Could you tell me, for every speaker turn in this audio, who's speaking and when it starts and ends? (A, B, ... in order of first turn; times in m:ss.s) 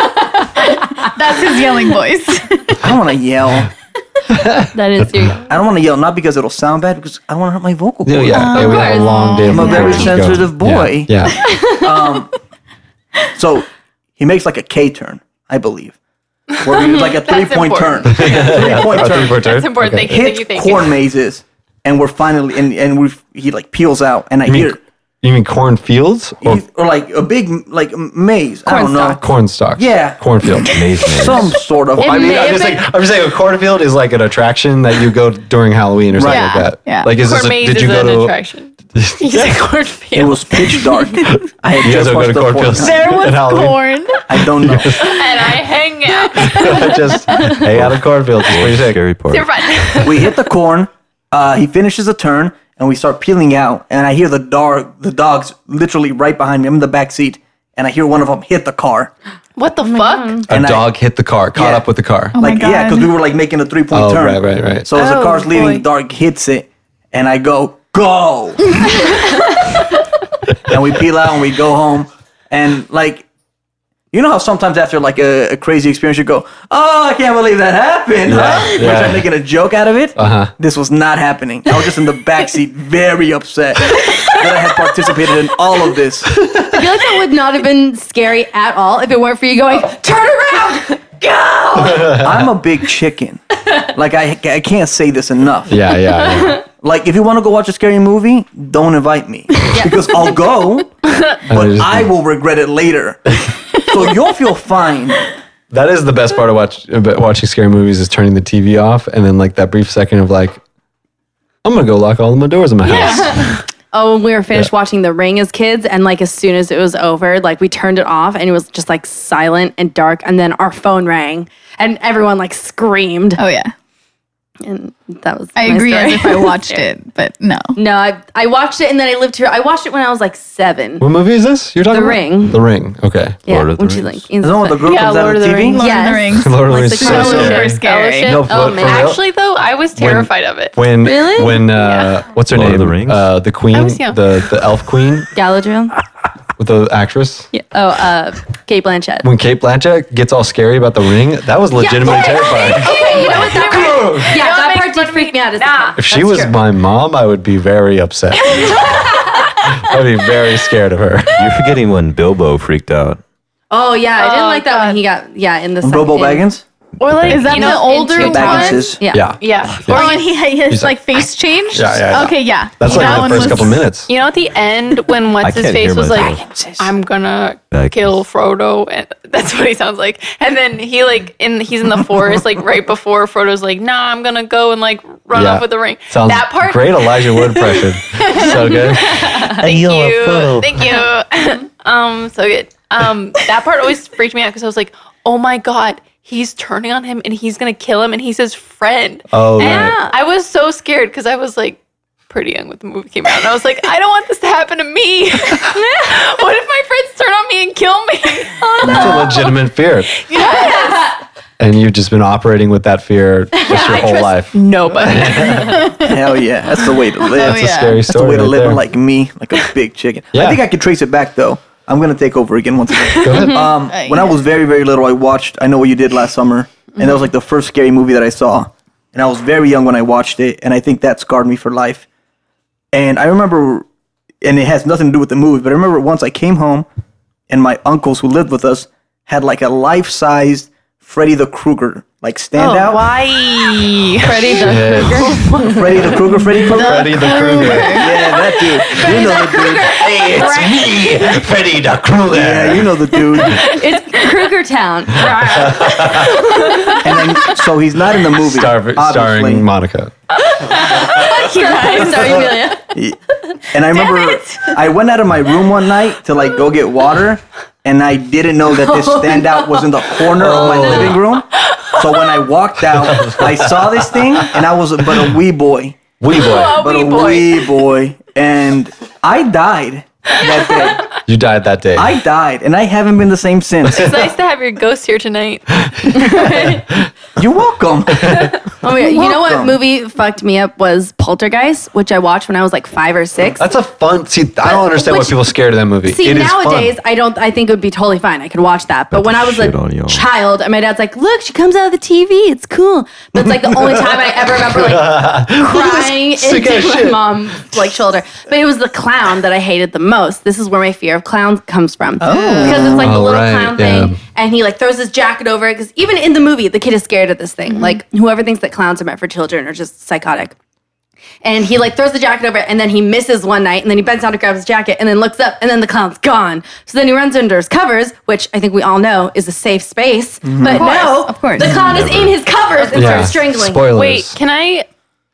0:00.6-0:02.8 A
0:02.8-0:03.7 B
0:04.3-0:05.3 C
0:04.7-0:05.5 D
0:05.5-0:08.8 B
0:08.1-0:11.5 C
0:08.3-0:10.1 A
0:08.7-0:10.1 D
0:09.5-0:12.3 B
0:13.4-0:13.7 B
0:14.2-0:16.0 B
0:16.5-0:21.0 E
0:16.6-0:24.8 B
0:18.1-0:20.2 C
0:24.5-0:26.6 C
0:26.4-0:32.6 B
0:28.7-0:29.2 D
0:29.0-0:30.8 C
0:30.7-0:31.6 F
0:32.0-0:38.4 C
0:32.0-0:32.8 D
0:36.2-0:36.5 B
0:36.2-0:37.1 A
0:37.2-0:41.0 E
0:39.0-0:39.6 C
0:40.2-0:43.2 B
0:41.8-0:45.2 C
0:42.8-0:44.3 A
0:44.3-0:45.0 B
0:45.0-0:47.4 E
0:46.4-0:49.0 C
0:47.6-0:50.0 F
0:49.3-0:50.3 E
0:50.0-0:59.1 B
0:59.6-1:00.4 E
0:59.8-1:00.5 D
1:00.5-1:02.4 C
1:00.5-1:00.9 B
1:01.6-1:01.9 B
1:02.4-1:03.2 A
1:02.4-1:09.2 B
1:03.9-1:04.9 C
1:04.9-1:05.8 E
1:10.7-1:13.2 B
1:14.1-1:26.4 B
1:18.2-1:19.3 C
1:20.2-1:20.5 C
1:26.4-1:26.7 C
1:26.7-1:32.2 D
1:31.8-1:32.5 C
1:32.0-1:35.8 B
1:35.7-1:36.6 C
1:36.8-1:45.3 B
1:39.7-1:40.4 D
1:41.5-1:42.1 C
1:45.7-1:50.6 C
1:51.6-1:53.4 C
1:52.9-2:03.4 D
1:53.1-1:53.4 E
2:03.4-2:03.7 A
2:04.6-2:06.9 D
2:05.6-2:07.8 A
2:07.8-2:11.1 D
2:11.0-2:13.4 C
2:11.9-2:12.6 D
2:13.5-2:14.3 F
2:13.5-2:14.9 D
2:14.4-2:15.8 B
2:14.8-2:15.8 E
2:15.6-2:18.4 A
2:15.8-2:17.6 D
2:16.4-2:19.2 C
2:16.9-2:20.8 E
2:18.5-2:19.1 D
2:20.0-2:25.3 C
2:21.0-2:21.6 D
2:21.7-2:22.2 E
2:22.5-2:23.3 F
2:23.7-2:24.2 E
2:25.3-2:25.9 D
2:26.6-2:27.5 C
2:27.5-2:29.3 D
2:29.2-2:34.4 C
2:31.8-2:36.6 D
2:32.1-2:36.0 E
2:36.0-2:38.7 C
2:38.4-2:39.6 D
2:39.7-2:41.5 C
2:41.4-2:43.2 F
2:43.7-2:46.5 D
2:44.2-2:45.0 E
2:45.8-2:46.6 B
2:47.0-2:50.3 E
2:47.0-2:47.8 F
2:47.3-2:49.0 A
2:47.6-2:49.3 D
2:48.1-2:49.0 B
2:49.1-2:54.1 C
2:49.9-2:53.9 A
2:52.8-2:53.6 D
2:54.1-3:29.5 E
2:55.4-2:56.8 F
2:57.7-2:58.2 F
3:05.3-3:09.3 C
3:09.6-3:10.9 F
3:19.3-3:20.0 C
3:19.6-3:20.2 D
3:28.6-3:29.4 D
3:28.8-3:29.3 B
3:28.8-3:30.1 C
3:30.3-3:31.0 E
3:30.4-3:31.2 D
3:31.6-3:35.8 C
3:33.7-3:35.9 E
3:33.7-3:34.0 D
3:35.6-3:36.1 A
3:36.0-3:52.0 B
3:37.4-3:38.0 A
3:37.4-3:38.8 C
3:40.3-3:40.6 C
3:43.2-3:43.7 C
3:43.9-3:44.4 A
3:52.9-3:53.8 B
3:54.4-3:56.9 B
3:57.5-4:03.2 B
4:02.6-4:06.2 E
4:04.2-4:06.1 D
4:04.6-4:05.4 C
4:05.7-4:10.0 B
4:06.4-4:08.2 A
4:06.8-4:08.0 C
4:08.2-4:10.7 D
4:08.9-4:09.8 E
4:09.9-4:12.9 C
4:12.3-4:13.7 B
4:13.5-4:17.0 D
4:15.2-4:15.8 E
4:15.3-4:16.4 C
4:16.5-4:16.9 E
4:17.0-4:19.7 B
4:18.4-4:20.1 C
4:20.6-4:22.9 D
4:20.6-4:22.1 E
4:21.9-4:23.2 B
4:23.7-4:36.0 B
4:28.7-4:29.9 D
4:30.4-4:31.2 C
4:30.6-4:31.1 D
4:32.9-4:34.5 C
4:36.2-4:36.8 C
4:36.3-4:37.7 E
4:36.5-4:41.2 B
4:41.3-4:42.2 C
4:42.0-4:44.3 B
4:43.9-4:46.0 E
4:46.1-4:46.8 D
4:47.4-4:49.8 B
4:48.8-4:53.7 D
4:53.6-4:57.0 C
4:54.6-4:55.5 D
4:56.0-5:20.6 D
4:59.1-5:00.3 F
5:04.6-5:07.5 C
5:12.2-5:13.1 B
5:12.2-5:13.0 A
5:13.0-5:14.2 C
5:21.4-5:33.9 D
5:30.4-5:30.8 B
5:30.7-5:31.8 A
5:31.8-5:32.4 F
5:32.8-5:33.3 E
5:32.9-5:34.4 C
5:33.9-5:34.9 E